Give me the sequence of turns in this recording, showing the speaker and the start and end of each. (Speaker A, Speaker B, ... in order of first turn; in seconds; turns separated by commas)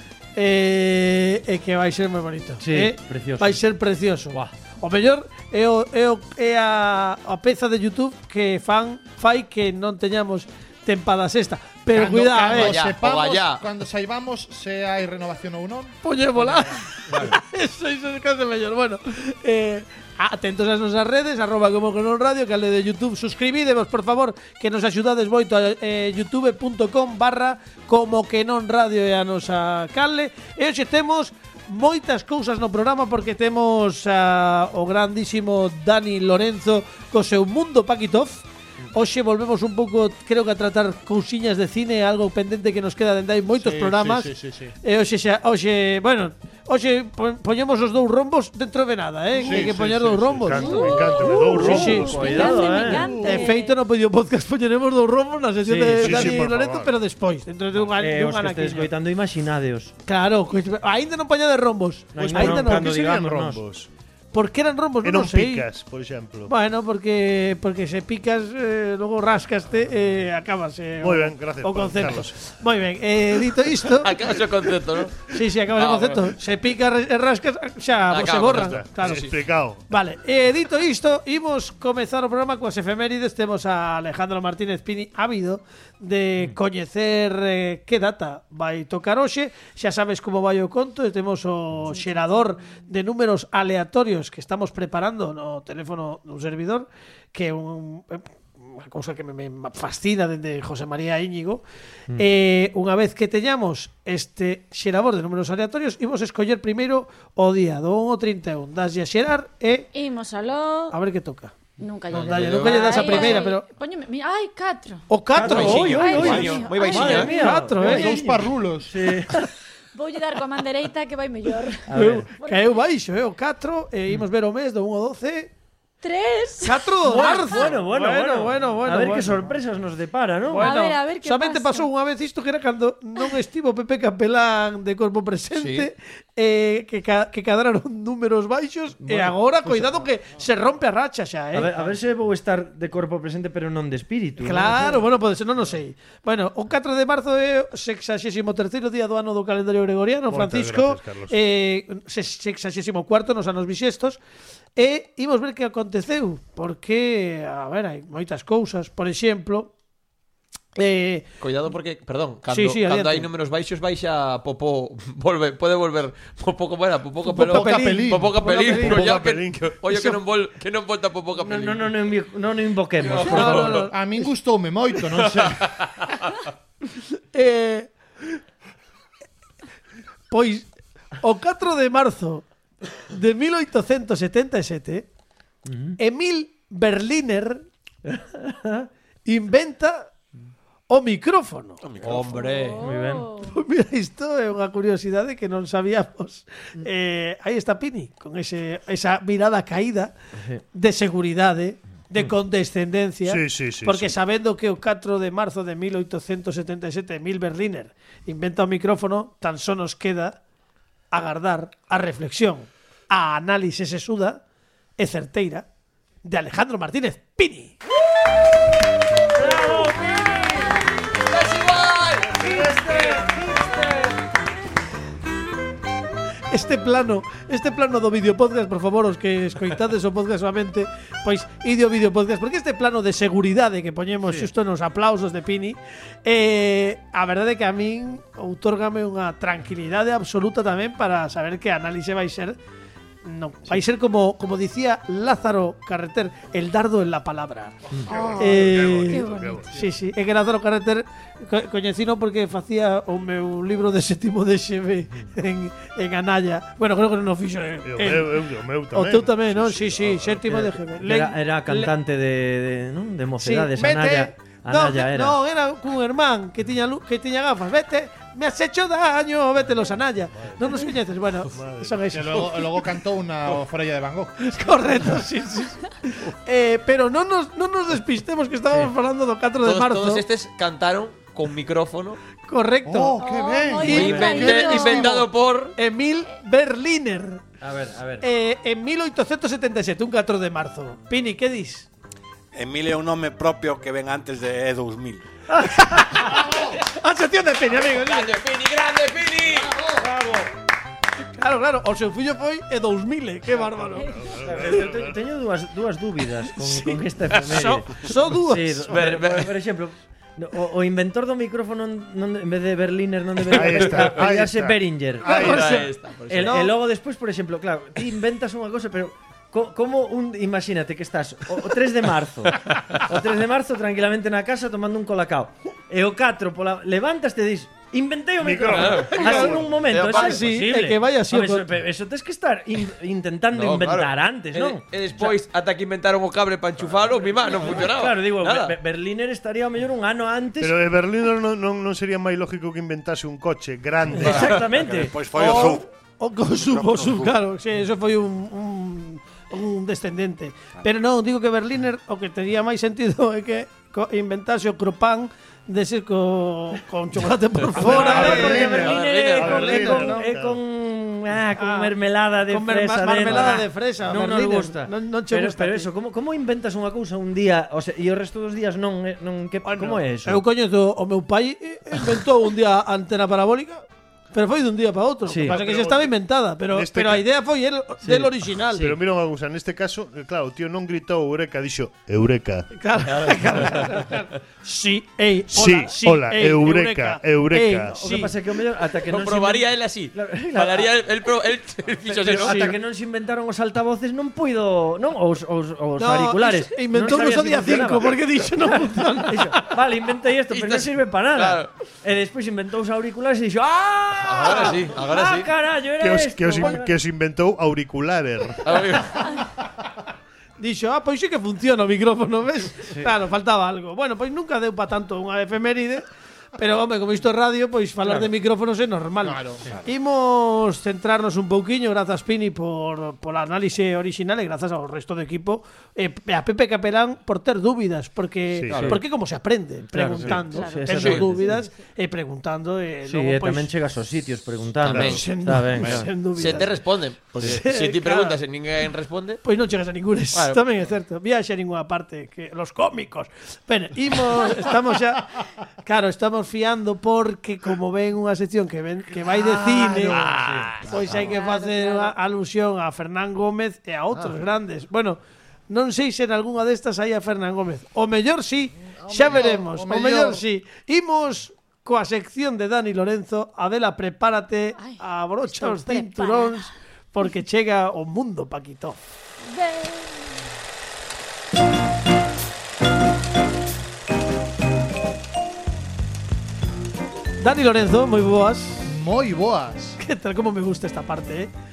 Speaker A: 0.3-12.8, Speaker B: 2.6-3.6, Speaker C: 11.9-16.8, Speaker D: 12.5-13.6, Speaker A: 16.0-44.3, Speaker C: 43.6-44.7, Speaker A: 44.8-58.9, Speaker C: 49.4-49.8, Speaker E: 49.5-52.6, Speaker F: 50.5-53.8, Speaker B: 51.5-53.3, Speaker B: 55.6-56.4, Speaker E: 55.9-57.0, Speaker B: 57.8-59.9, Speaker A: 60.0-63.0, Speaker B: 62.1-63.6, Speaker E: 62.3-63.9, Speaker A: 64.3-65.7, Speaker E: 65.0-66.5, Speaker A: 66.5-74.2, Speaker E: 71.0-72.3, Speaker D: 73.9-76.3, Speaker A: 75.2-79.3, Speaker D: 78.1-79.3, Speaker E: 78.5-79.8, Speaker A: 79.9-109.9, Speaker F: 109.9-110.9, Speaker A: 110.9-111.5, Speaker F: 111.8-117.4, Speaker D: 112.1-113.4, Speaker A: 112.1-113.7, Speaker A: 115.1-116.5, Speaker B: 115.3-119.5, Speaker D: 115.4-117.3, Speaker A: 117.0-118.2, Speaker C: 117.8-119.1, Speaker F: 119.9-122.7, Speaker B: 121.9-122.3, Speaker A: 121.9-125.5, Speaker F: 126.0-127.6, Speaker A: 126.6-129.5, Speaker B: 127.0-130.7, Speaker A: 130.4-141.7, Speaker F: 130.5-131.9, Speaker D: 135.5-135.9, Speaker B: 139.0-140.0, Speaker B: 141.5-145.1, Speaker A: 144.4-154.2, Speaker E: 150.3-151.4, Speaker A: 154.8-159.7, Speaker A: 160.8-161.2, Speaker D: 161.4-171.9, Speaker A: 162.5-163.3, Speaker A: 167.2-169.0, Speaker C: 167.3-168.7, Speaker E: 168.4-170.2, Speaker B: 171.4-173.9, Speaker D: 173.0-173.7, Speaker A: 173.2-174.3, Speaker C: 173.7-175.8, Speaker A: 177.0-177.9, Speaker A: 180.3-180.7, Speaker A: 181.2-182.4, Speaker A: 183.1-185.1, Speaker B: 185.6-186.0, Speaker A: 186.0-187.6, Speaker B: 188.3-188.9, Speaker A: 189.2-190.1, Speaker A: 190.9-191.8, Speaker D: 191.8-192.8, Speaker F: 192.3-193.5, Speaker B: 192.8-193.3, Speaker A: 193.5-200.1, Speaker B: 200.3-200.6, Speaker A: 200.7-210.4, Speaker E: 203.2-204.1, Speaker A: 211.1-214.4, Speaker A: 215.0-215.7, Speaker A: 216.2-217.8, Speaker B: 219.3-220.8, Speaker D: 221.3-222.3, Speaker B: 222.3-224.2, Speaker A: 226.5-242.6, Speaker A: 243.2-247.8, Speaker F: 248.1-249.7, Speaker E: 248.1-249.8, Speaker A: 248.4-258.4, Speaker E: 257.8-260.5, Speaker A: 258.9-261.9, Speaker B: 260.5-265.4, Speaker A: 263.4-272.8, Speaker E: 270.4-270.7, Speaker E: 271.5-272.1, Speaker C: 272.1-274.5, Speaker A: 274.4-280.2, Speaker D: 279.6-282.2, Speaker A: 282.5-283.2, Speaker C: 282.9-285.3, Speaker F: 283.2-285.1, Speaker A: 283.8-285.2, Speaker D: 283.8-285.7, Speaker A: 285.7-287.4, Speaker B: 287.6-288.2, Speaker A: 288.2-291.9, Speaker G: 292.5-295.2, Speaker B: 295.5-296.2, Speaker A: 295.7-298.4, Speaker C: 296.2-296.7, Speaker D: 297.9-299.7, Speaker C: 299.5-300.1, Speaker B: 299.9-300.5, Speaker A: 301.4-304.1, Speaker E: 303.9-305.1, Speaker B: 304.4-335.4, Speaker A: 306.5-309.1, Speaker D: 308.9-309.5, Speaker D: 313.5-314.2, Speaker E: 313.5-315.8, Speaker A: 315.2-316.7, Speaker D: 315.2-316.6, Speaker D: 322.7-323.0, Speaker E: 328.4-329.6, Speaker D: 328.7-330.4, Speaker A: 329.1-331.7, Speaker D: 333.5-338.7, Speaker B: 337.1-340.8, Speaker E: 340.6-344.5, Speaker B: 344.1-345.2, Speaker D: 344.3-344.6, Speaker G: 344.7-345.9, Speaker A: 345.3-360.2, Speaker G: 346.4-347.4, Speaker B: 357.7-370.4, Speaker E: 357.8-360.6, Speaker D: 358.7-359.5, Speaker A: 361.6-361.9, Speaker A: 362.4-365.9, Speaker A: 369.6-378.9, Speaker B: 375.3-375.6, Speaker E: 375.4-376.1, Speaker E: 376.7-377.3, Speaker B: 378.0-378.9, Speaker E: 378.8-382.7, Speaker A: 382.7-388.3, Speaker B: 383.1-383.6, Speaker E: 385.5-388.0, Speaker B: 387.9-391.0, Speaker D: 389.0-392.7, Speaker B: 392.1-406.9, Speaker C: 392.2-392.6, Speaker A: 396.0-399.7, Speaker D: 400.5-401.7, Speaker D: 404.2-405.5, Speaker E: 406.0-408.9, Speaker D: 408.6-409.3, Speaker A: 410.6-416.0, Speaker A: 416.6-433.7, Speaker C: 419.2-419.8, Speaker E: 428.5-429.0, Speaker B: 428.7-429.0, Speaker B: 429.9-431.6, Speaker F: 430.4-431.7, Speaker D: 430.9-431.2, Speaker B: 433.0-436.6, Speaker D: 434.8-435.2, Speaker A: 435.0-436.8, Speaker D: 436.3-439.4, Speaker A: 437.3-438.4, Speaker A: 439.4-450.2, Speaker D: 440.3-440.6, Speaker C: 449.2-450.7, Speaker B: 450.2-450.6, Speaker A: 450.8-455.2, Speaker F: 451.1-452.1, Speaker A: 455.7-469.0, Speaker C: 458.9-460.4, Speaker F: 464.8-466.7, Speaker F: 469.4-470.3, Speaker A: 477.4-478.9, Speaker C: 478.8-480.0, Speaker A: 480.0-481.5